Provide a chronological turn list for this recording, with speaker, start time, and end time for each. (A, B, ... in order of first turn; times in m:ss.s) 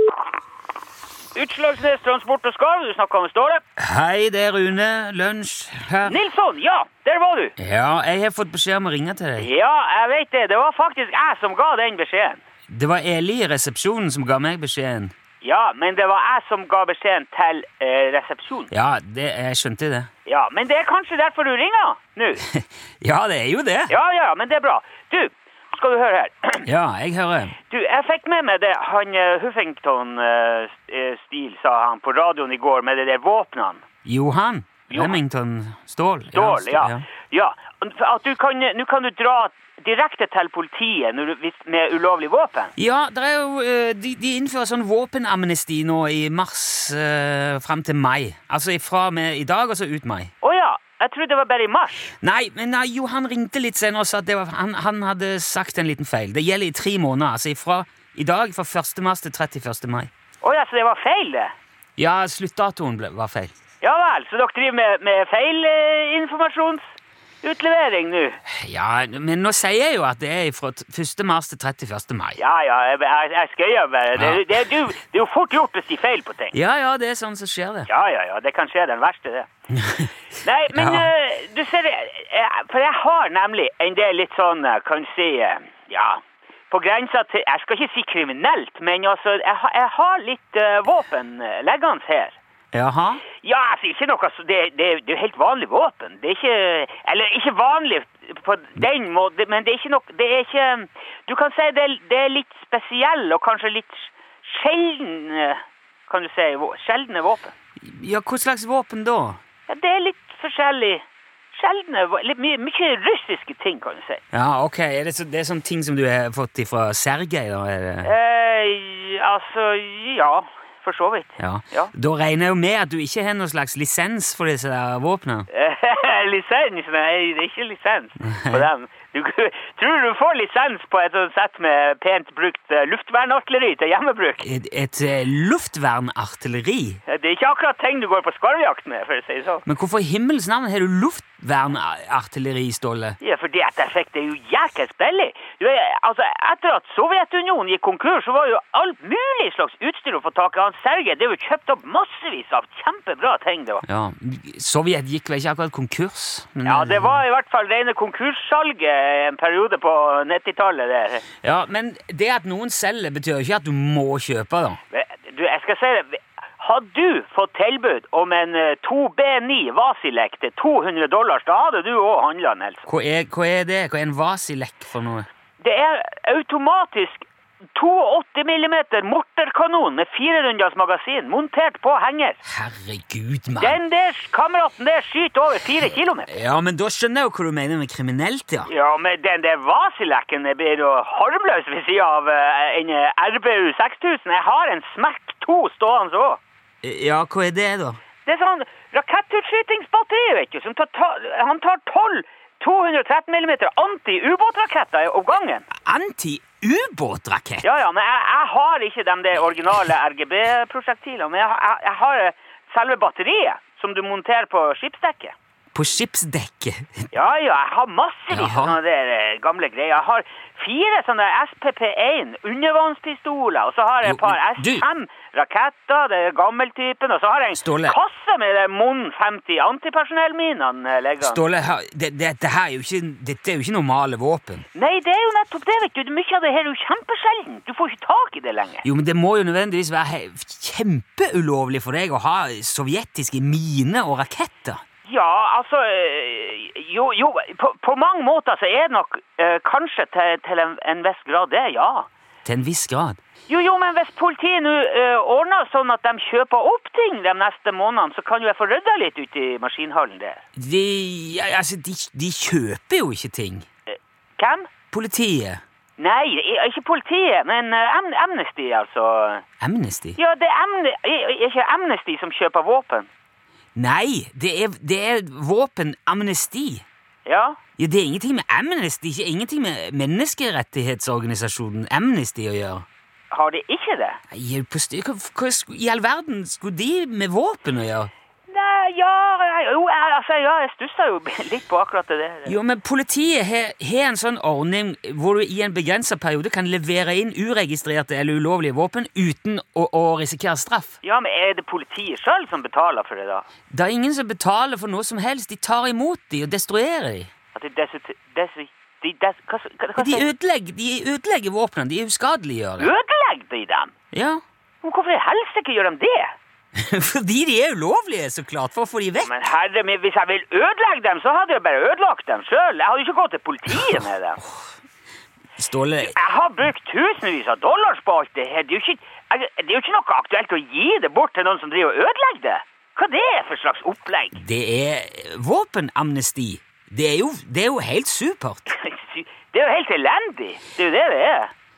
0:01.4-0:03.6 A
0:03.8-0:06.2 B
0:06.0-0:07.6 A
0:07.6-0:09.5 B
0:09.4-0:12.4 A
0:12.7-0:15.1 B
0:15.4-0:18.7 A
0:18.7-0:20.1 B
0:20.2-0:22.4 A
0:22.5-0:23.9 B
0:23.9-0:26.7 A
0:26.6-0:27.5 B
0:27.6-0:33.8 A
0:34.0-0:37.0 B
0:34.9-0:35.2 A
0:36.3-0:42.7 A
0:42.8-0:50.3 B
0:50.4-0:52.1 A
0:52.2-1:00.1 B
1:00.4-1:01.5 A
1:02.0-1:03.5 B
1:03.8-1:08.4 A
1:08.5-1:12.4 B
1:12.4-1:16.6 A
1:14.1-1:14.6 B
1:16.5-1:17.9 B
1:17.9-1:19.5 A
1:19.7-1:20.1 B
1:20.4-1:32.4 A
1:20.7-1:21.1 B
1:32.7-1:33.2 B
1:33.3-1:47.5 A
1:47.8-1:49.4 B
1:49.7-1:54.2 A
1:54.3-1:58.1 B
1:58.0-2:01.9 A
2:01.4-2:05.5 B
2:05.5-2:14.5 A
2:08.2-2:08.7 B
2:14.4-2:17.0 B
2:17.1-2:19.7 A
2:19.7-2:23.2 B
2:23.2-2:33.8 A
2:33.8-2:37.2 B
2:36.6-2:41.2 A
2:41.4-2:44.8 B
2:44.9-2:52.8 A
2:52.9-2:55.3 B
2:55.6-3:02.4 A
3:02.4-3:03.8 B
3:03.6-3:06.3 A
3:06.3-3:08.7 B
3:08.7-3:16.4 A
3:16.8-3:18.0 B
3:18.2-3:25.7 A
3:25.8-3:27.7 B
3:27.6-3:35.3 A
3:35.7-3:37.0 B
3:37.1-3:51.4 A
3:38.3-3:38.8 B
3:44.0-3:44.8 B
3:47.6-3:48.0 B
3:51.2-3:54.6 B
3:54.7-3:58.9 A
3:58.8-4:04.8 B
4:05.0-4:12.1 A
4:12.4-4:13.2 B
4:13.5-4:20.4 A
4:20.6-4:23.6 B
4:23.9-4:24.7 A
4:24.9-4:25.6 B
4:26.0-4:29.4 A
4:29.6-4:30.2 B
4:30.2-4:33.1 A
4:33.8-4:36.8 B
4:37.2-4:37.6 A
4:37.8-4:42.8 B
4:43.3-4:44.2 A
4:44.3-4:48.1 B
4:48.5-4:52.6 A
4:52.4-5:01.0 B
5:01.0-5:03.4 A
5:03.7-5:07.3 B
5:07.5-5:10.3 A
5:10.0-5:12.9 B
5:12.8-5:13.9 A
5:14.1-5:14.4 B
5:14.8-5:16.3 A
5:16.8-5:19.3 B
5:19.2-5:24.4 A
5:25.6-5:26.2 B
5:26.0-5:34.4 A
5:34.4-5:38.7 B
5:38.7-5:41.5 A